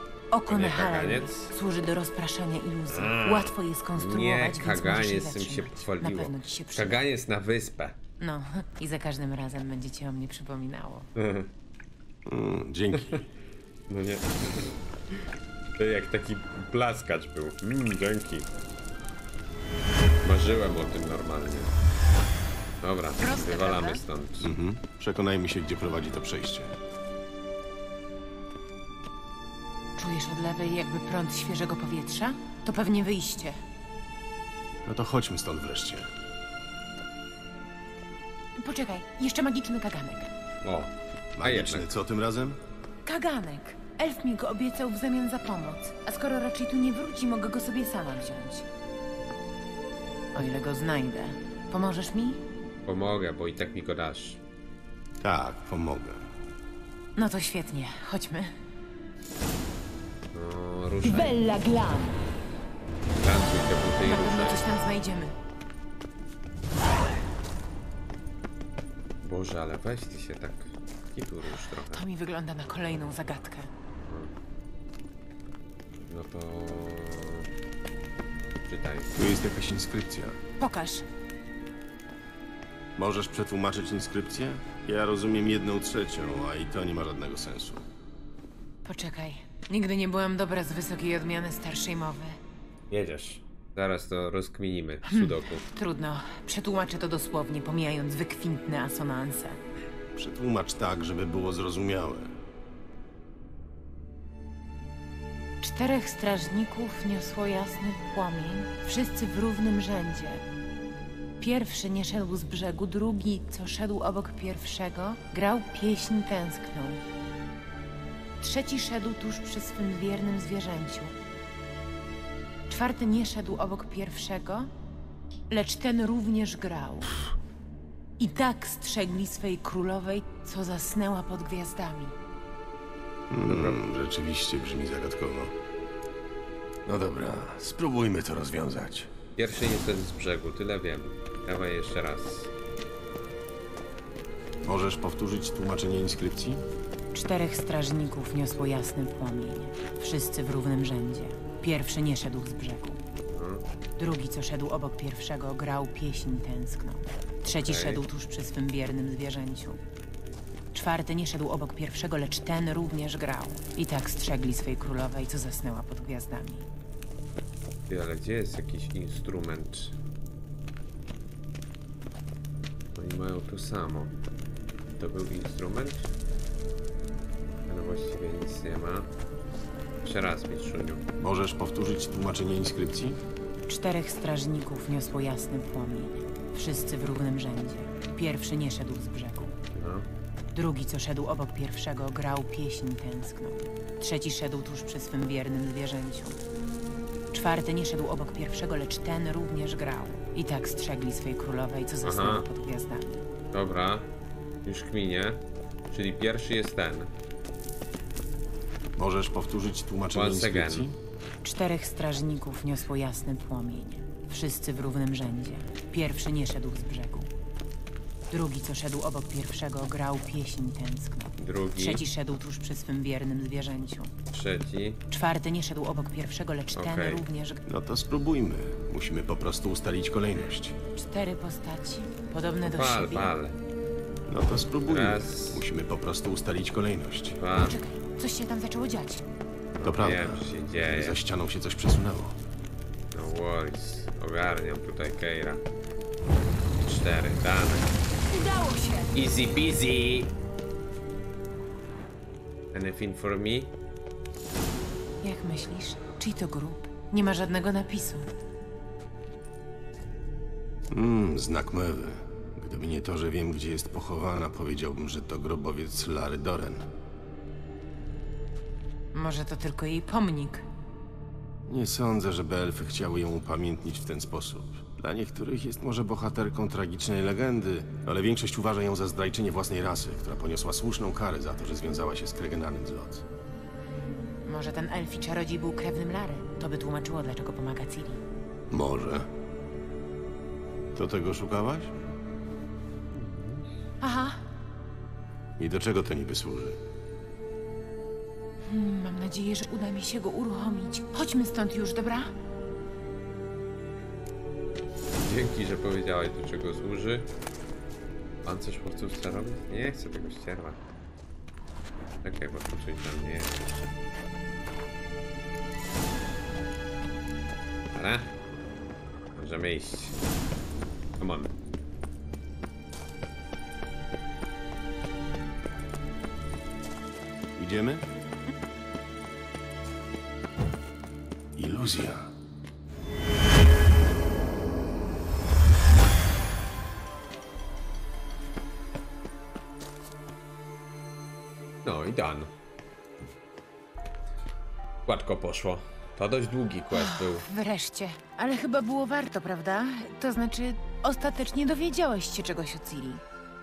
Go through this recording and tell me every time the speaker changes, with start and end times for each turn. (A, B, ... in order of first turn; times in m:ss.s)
0:00.3-0:07.0 A
0:00.5-0:01.5 B
0:02.9-0:08.0 B
0:08.2-0:11.1 A
0:11.2-0:11.5 B
0:12.3-0:13.2 C
0:13.9-0:15.2 B
0:15.8-0:18.5 B
0:20.2-0:21.7 B
0:22.8-0:24.5 B
0:23.2-0:24.0 A
0:24.4-0:26.7 C
0:30.0-0:33.6 A
0:34.8-0:36.1 C
0:38.6-0:40.3 A
0:40.6-0:41.9 B
0:41.4-0:42.6 C
0:43.1-0:48.7 A
0:50.4-0:52.4 A
0:52.8-0:54.4 B
0:55.2-0:56.3 C
0:57.2-0:58.6 A
1:00.3-1:01.4 B
1:01.0-1:02.2 A
1:03.2-1:04.6 B
1:04.1-1:05.3 A
1:09.2-1:12.0 B
1:11.9-1:13.7 A
1:16.1-1:17.5 B
1:18.7-1:19.1 B
1:19.2-1:20.4 C
1:20.6-1:21.0 A
1:23.0-1:27.9 C
1:28.8-1:32.4 A
1:32.9-1:35.6 B
1:35.1-1:39.6 A
1:40.2-1:42.3 C
1:45.6-1:50.4 A
1:51.4-1:57.0 A
1:58.4-2:01.2 A
2:02.7-2:04.7 A
2:05.5-2:07.2 A
2:08.2-2:12.2 A
2:13.3-2:15.6 C
2:13.5-2:13.8 B
2:16.9-2:19.1 C
2:19.4-2:22.5 B
2:24.6-2:26.6 C
2:27.1-2:33.0 A
2:33.3-2:33.6 B
2:34.0-2:39.8 A
2:37.5-2:38.0 B
2:40.7-2:46.6 A
2:47.9-2:50.0 B
2:53.0-2:54.2 B
2:55.0-2:56.1 B
2:57.7-2:59.1 B
3:00.0-3:01.0 B
3:01.2-3:03.2 C
3:03.7-3:09.6 A
3:09.7-3:10.1 B
3:10.5-3:16.4 A
3:17.3-3:23.2 A
3:22.0-3:22.5 B
3:23.5-3:24.1 B
3:24.6-3:27.1 B
3:29.0-3:31.0 C
3:30.1-3:30.9 B
3:31.4-3:37.3 A
3:38.3-3:44.1 A
3:41.4-3:42.0 B
3:44.3-3:45.0 B
3:45.1-3:47.6 A
3:46.8-3:47.2 B
3:47.7-3:50.8 C
3:51.0-3:53.3 A
3:52.6-3:53.6 B
3:54.3-3:57.4 C
3:54.9-3:55.6 B
3:57.4-3:57.8 B
3:57.6-3:59.2 A
3:59.8-4:01.2 B
3:59.8-4:02.4 C
4:03.1-4:05.6 B
4:06.8-4:07.9 B
4:08.3-4:09.1 A
4:09.1-4:10.3 B
4:12.7-4:13.7 B
4:15.2-4:18.3 A
4:20.9-4:26.9 C
4:29.1-4:30.7 A
4:31.7-4:43.2 C
4:43.9-4:48.2 A
4:48.7-4:49.3 C
4:51.0-4:51.9 C
4:53.1-4:53.7 B
4:54.0-4:54.4 A
4:55.6-4:56.8 C
4:58.6-5:02.3 A
5:05.2-5:07.3 B
5:08.4-5:10.8 B
5:12.2-5:13.8 B
5:17.9-5:18.3 B
5:19.4-5:20.2 B
5:21.2-5:21.5 B
5:27.6-5:28.0 C
5:31.6-5:32.3 C
5:41.8-5:42.5 B
5:45.1-5:47.4 B
5:46.9-5:53.2 A